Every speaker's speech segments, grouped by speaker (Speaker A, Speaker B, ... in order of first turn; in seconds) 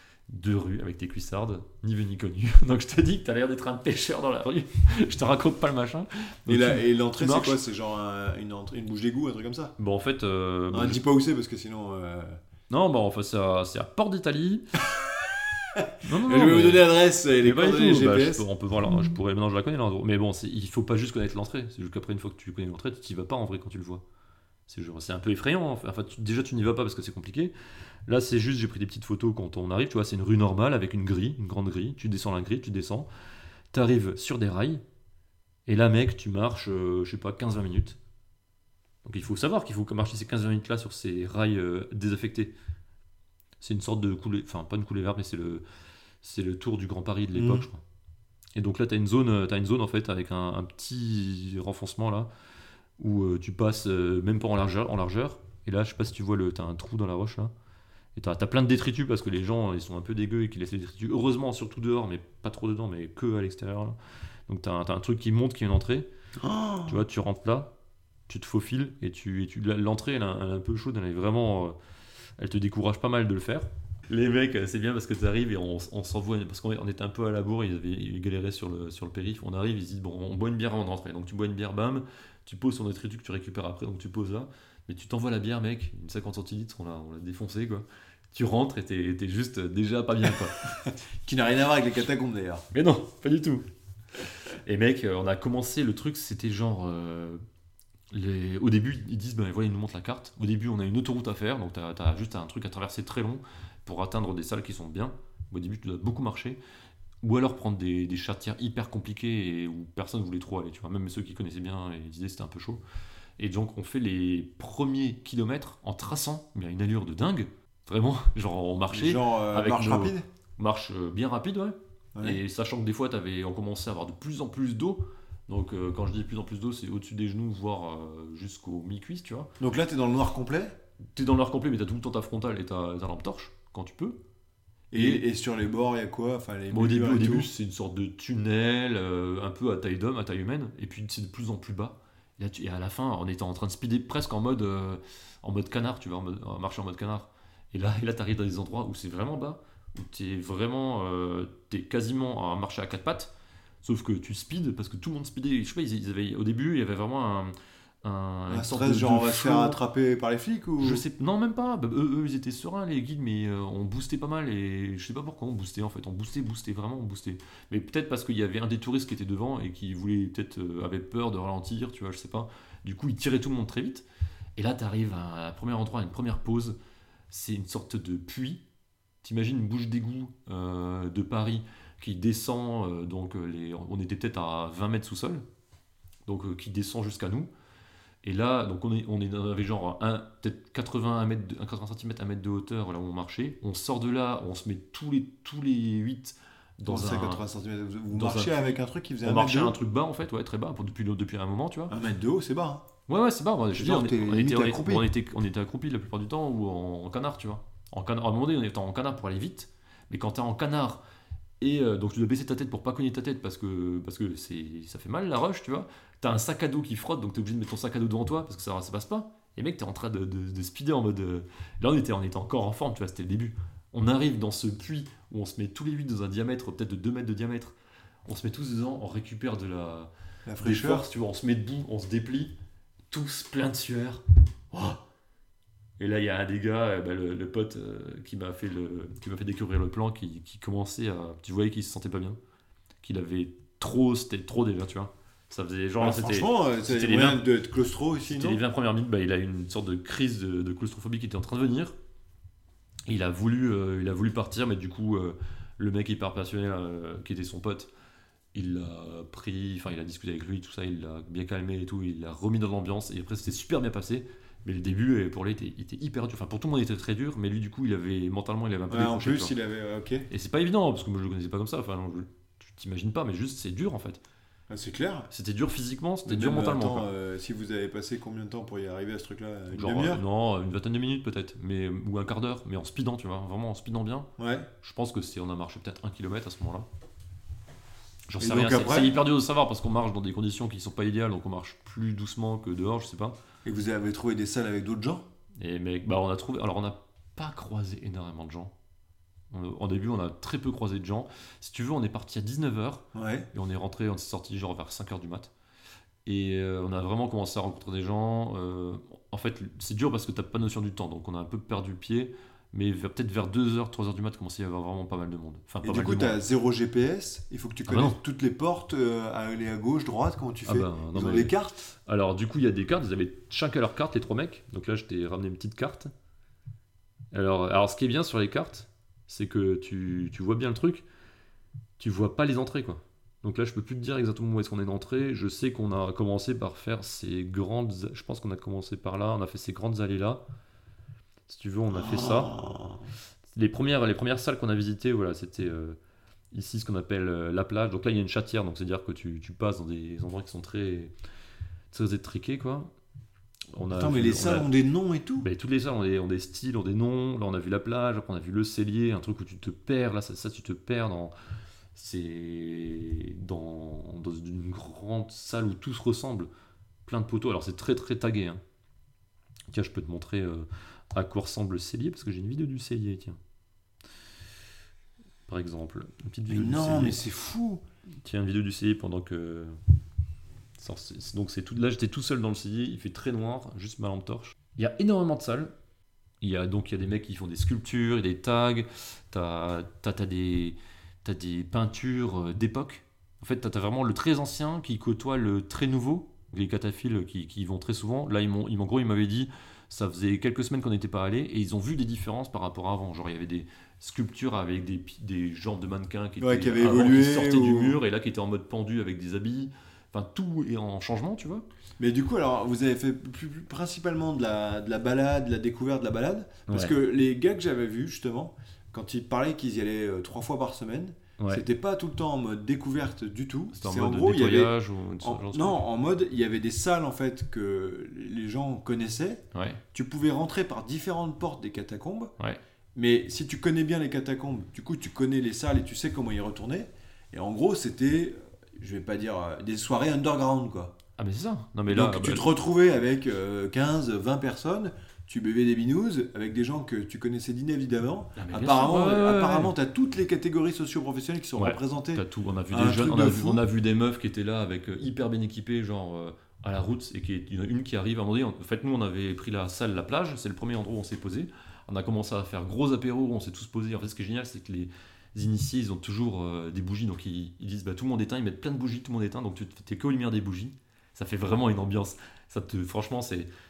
Speaker A: 0.3-7.6, 9.8-11.0, 12.7-14.8, 16.0-24.0, 24.7-27.5, 28.1-33.1, 33.7-34.8, 35.7-38.0, 39.0-42.5, 43.6-45.6, 46.2-47.8, 48.5-52.3, 53.0-57.5, 58.1-64.0, 64.5-66.1, 66.8-67.7, 68.3-71.8, 72.4-90.7, 92.7-93.6, 94.5-97.4, 98.1-106.6, 107.2-112.8, 113.4-129.5, 131.1-134.2, 134.9-135.2, 136.7-153.3, 153.8-159.8, 160.8-174.0, 174.6-176.8, 177.3-178.6, 179.2-185.4, 186.2-187.5, 188.2-197.4, 198.1-201.9, 203.1-211.0, 211.6-232.5, 233.1-235.0, 236.0-242.4, 243.0-247.5, 248.2-251.9, 253.1-257.9, 258.5-269.5, 270.3-274.2, 275.3-277.1, 279.7-284.3, 284.8-286.9, 288.3-293.4, 295.6-298.7, 299.5-305.5, 306.2-316.4, 317.9-318.2, 320.6-326.1, 327.3-331.1, 332.0-340.4, 341.5-342.6, 343.5-346.0, 346.5-351.1, 351.9-352.9, 353.7-354.7, 355.4-361.3, 361.9-366.5, 367.1-368.6, 369.7-373.4, 375.5-377.2, 378.2-379.8, 380.8-385.7, 386.4-411.6, 416.7-416.9, 421.4-421.6, 423.7-425.8, 429.5-429.8, 441.2-442.4, 448.4-449.7, 451.6-473.5
Speaker B: 6.5-9.8, 10.7-12.4, 15.7-18.4, 47.3-47.6, 66.4-67.0, 91.2-92.6, 118.9-120.2, 129.6-130.7, 134.9-137.5, 158.5-161.0, 196.8-199.8, 201.9-202.9, 203.7-205.1, 230.4-231.1, 246.0-248.6, 268.9-270.3, 274.7-275.3, 276.2-280.2, 284.4-284.7, 288.4-289.2, 293.6-295.3, 303.1-303.5, 315.8-321.9, 342.0-343.0, 353.9-355.5, 376.5-377.8, 406.4-408.0, 412.0-432.3, 432.9-440.9, 441.9-453.6